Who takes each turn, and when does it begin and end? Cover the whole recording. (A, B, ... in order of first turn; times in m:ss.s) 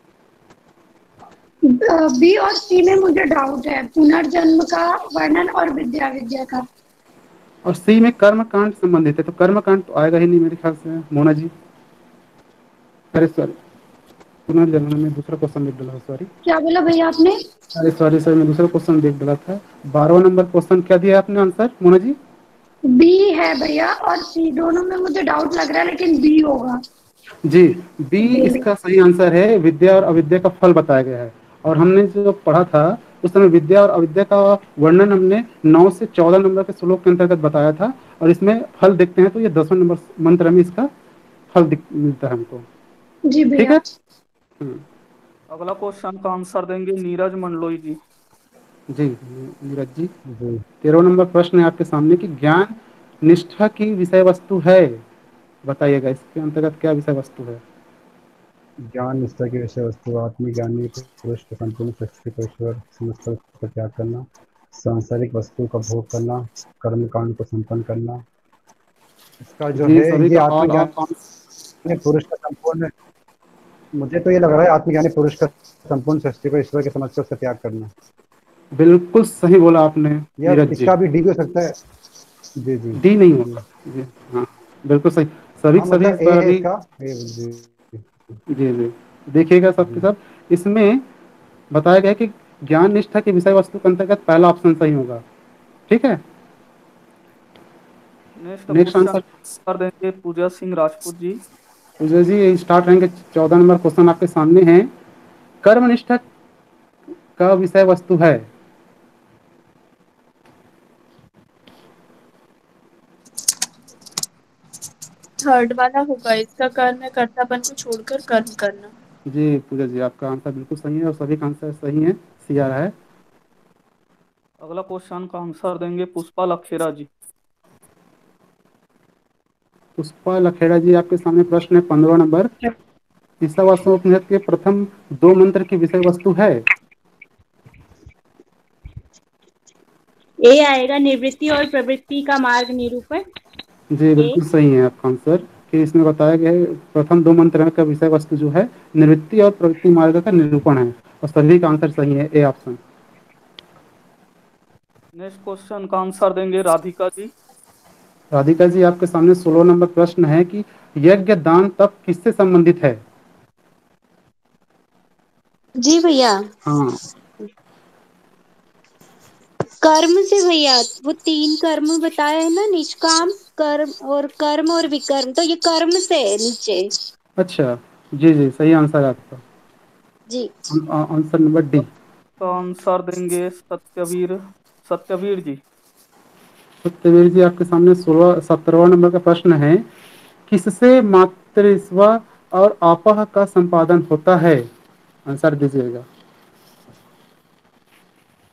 0:01.7-0:06.6 A
0:07.6-0:11.5 B
0:13.1-0:13.6 B
0:14.5-0:16.3 B
0:16.4-0:17.4 A
0:17.7-0:22.2 B
0:22.9-0:26.8 A
0:27.4-0:40.9 B
0:28.2-0:28.6 A
0:41.5-0:42.7 B
0:43.3-0:43.8 A
0:43.6-0:43.8 B
0:45.5-0:48.0 C
0:48.9-0:50.1 B
0:50.3-0:50.6 D
0:50.8-0:55.0 B
0:55.6-0:57.6 B
0:58.9-1:08.2 D
1:09.4-1:10.9 D
1:09.7-1:11.2 B
1:11.8-1:12.9 D
1:14.0-1:17.9 D
1:18.7-1:20.9 B
1:20.4-1:21.7 D
1:22.6-1:23.0 D
1:22.9-1:26.6 B
1:25.8-1:28.3 D
1:28.5-1:31.0 B
1:31.7-1:35.2 B
1:35.9-1:36.2 B
1:38.4-1:41.4 C
1:38.7-1:39.2 B
1:42.0-1:44.9 B
1:45.6-1:46.2 B
1:47.4-1:48.5 B
1:55.4-1:58.9 E
1:59.3-2:02.9 B
2:04.6-2:07.1 C
2:10.0-2:12.5 B
2:13.4-2:16.6 B
2:20.9-2:23.0 F
2:23.9-2:32.8 B
2:35.2-2:37.3 C
2:38.3-2:43.0 B
2:45.8-2:46.4 F
2:46.6-2:47.0 B
2:49.8-2:56.9 F
2:57.4-2:59.4 B
3:00.7-3:01.9 B
3:02.4-3:04.3 C
3:04.8-3:05.6 C
3:06.8-3:09.8 B
3:10.5-3:14.7 B
3:15.3-3:16.0 B